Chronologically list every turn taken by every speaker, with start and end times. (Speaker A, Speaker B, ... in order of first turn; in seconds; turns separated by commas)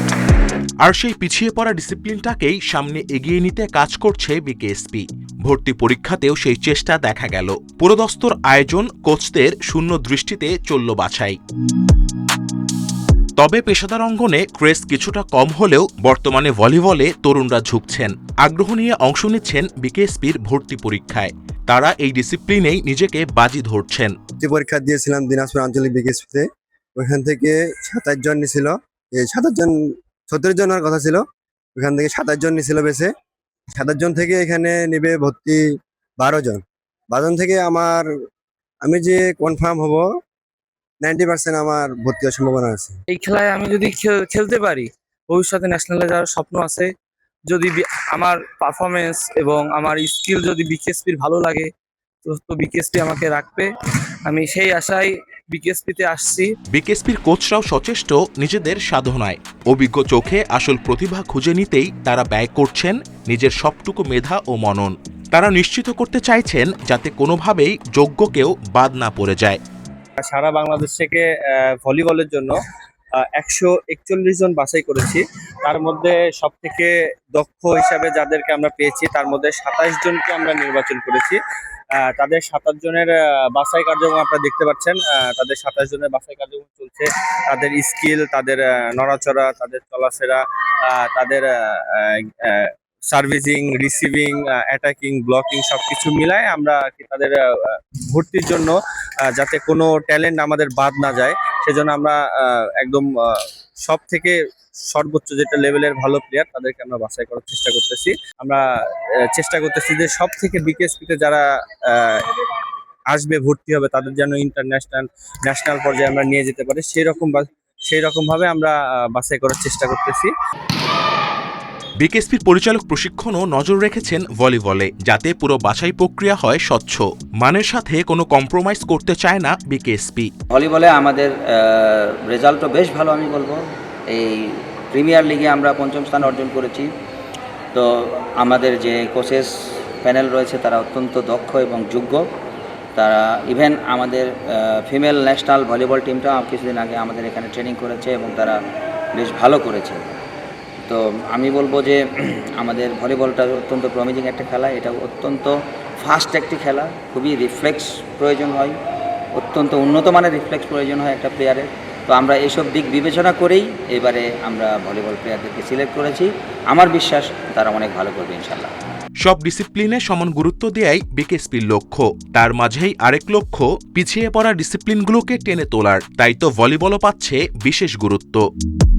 Speaker A: 0.8-11.4, Speaker A: 13.4-24.1, Speaker B: 24.4-26.4, Speaker B: 27.0-29.8, Speaker B: 30.3-31.2, Speaker B: 31.8-33.1, Speaker B: 33.8-35.6, Speaker B: 36.2-38.1, Speaker B: 38.8-40.1, Speaker B: 41.0-43.0, Speaker C: 43.1-46.9, Speaker C: 47.5-51.7, Speaker C: 52.2-53.7, Speaker C: 54.2-56.5, Speaker A: 56.7-69.6, Speaker D: 70.2-72.6, Speaker D: 73.2-81.4, Speaker D: 82.0-98.8, Speaker D: 99.3-108.6, Speaker D: 109.3-112.4, Speaker D: 113.1-120.3, Speaker A: 122.0-130.3, Speaker E: 130.5-136.9, Speaker E: 137.7-142.2, Speaker E: 143.0-148.6, Speaker E: 149.1-150.2, Speaker E: 150.8-158.8, Speaker E: 159.4-168.7, Speaker A: 169.2-178.4